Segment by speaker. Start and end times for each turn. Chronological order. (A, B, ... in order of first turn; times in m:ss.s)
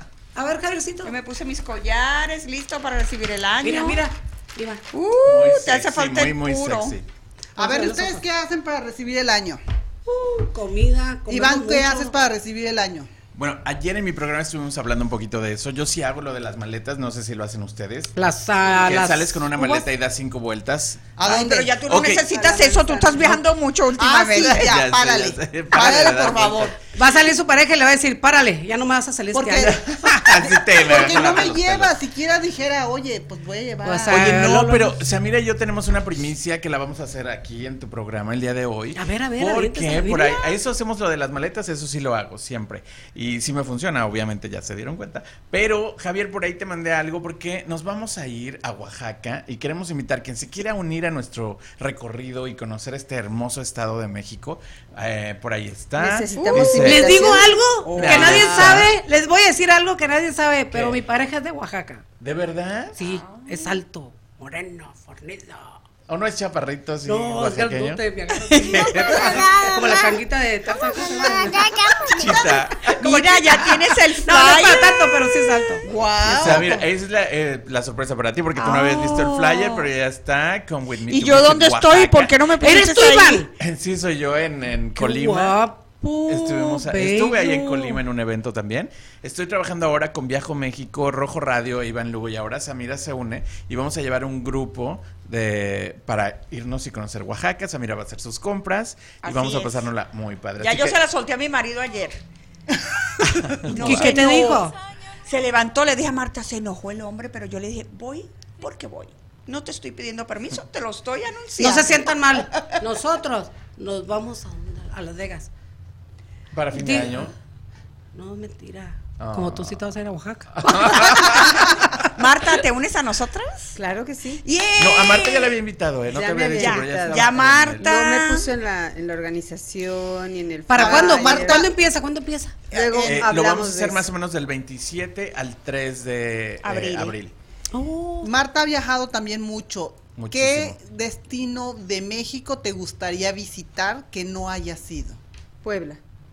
0:00.3-0:01.1 A
0:01.0-0:04.0 B
0:03.6-0:04.8 A
0:04.9-0:06.9 B
0:05.3-0:07.1 C
0:07.6-0:08.2 A
0:07.6-0:09.6 D
0:10.1-0:12.2 A
0:11.3-0:13.1 D
0:13.3-0:18.1 C
0:18.1-0:19.9 A
0:18.7-0:22.2 C
0:21.2-0:21.8 D
0:21.3-0:24.6 B
0:22.3-0:23.2 E
0:24.0-0:26.7 D
0:24.4-0:26.8 C
0:27.0-0:29.8 A
0:29.3-0:29.8 D
0:29.6-0:31.9 C
0:30.4-0:34.3 D
0:33.8-0:34.9 A
0:34.0-0:57.2 C
0:39.0-0:40.4 A
0:56.0-0:57.5 E
0:56.3-0:56.7 B
0:56.8-1:02.0 A
0:57.8-0:58.9 C
0:57.9-0:58.6 D
1:00.7-1:01.0 C
1:02.2-1:03.0 C
1:03.0-1:05.7 A
1:03.0-1:03.7 B
1:06.1-1:08.0 C
1:07.0-1:11.8 A
1:08.5-1:10.1 B
1:08.6-1:09.6 C
1:11.0-1:15.6 B
1:12.0-1:13.9 C
1:14.2-1:15.8 A
1:15.8-1:16.8 D
1:16.2-1:22.4 C
1:18.6-1:19.8 B
1:21.1-1:23.4 B
1:22.6-1:23.5 A
1:23.6-1:25.6 C
1:25.0-1:28.0 A
1:26.3-1:41.0 C
1:39.2-1:39.9 B
1:40.6-1:42.2 B
1:43.4-1:44.3 C
1:43.7-1:44.7 B
1:43.7-1:44.7 A
1:45.2-1:52.1 B
1:51.6-1:55.5 A
1:56.5-1:57.3 C
1:56.7-1:57.3 A
1:58.1-2:01.4 A
1:59.2-1:59.8 C
2:00.6-2:02.1 C
2:01.3-2:03.7 B
2:03.7-2:04.4 E
2:04.4-2:05.5 B
2:04.8-2:07.9 C
2:06.1-2:07.3 E
2:06.6-2:08.5 B
2:07.8-2:11.7 E
2:10.7-2:12.6 A
2:10.8-2:11.7 D
2:12.7-2:14.0 E
2:12.7-2:13.2 D
2:12.9-2:17.3 C
2:16.6-2:17.2 B
2:17.7-2:18.3 A
2:18.2-2:25.2 D
2:20.1-2:20.8 C
2:25.6-2:26.0 E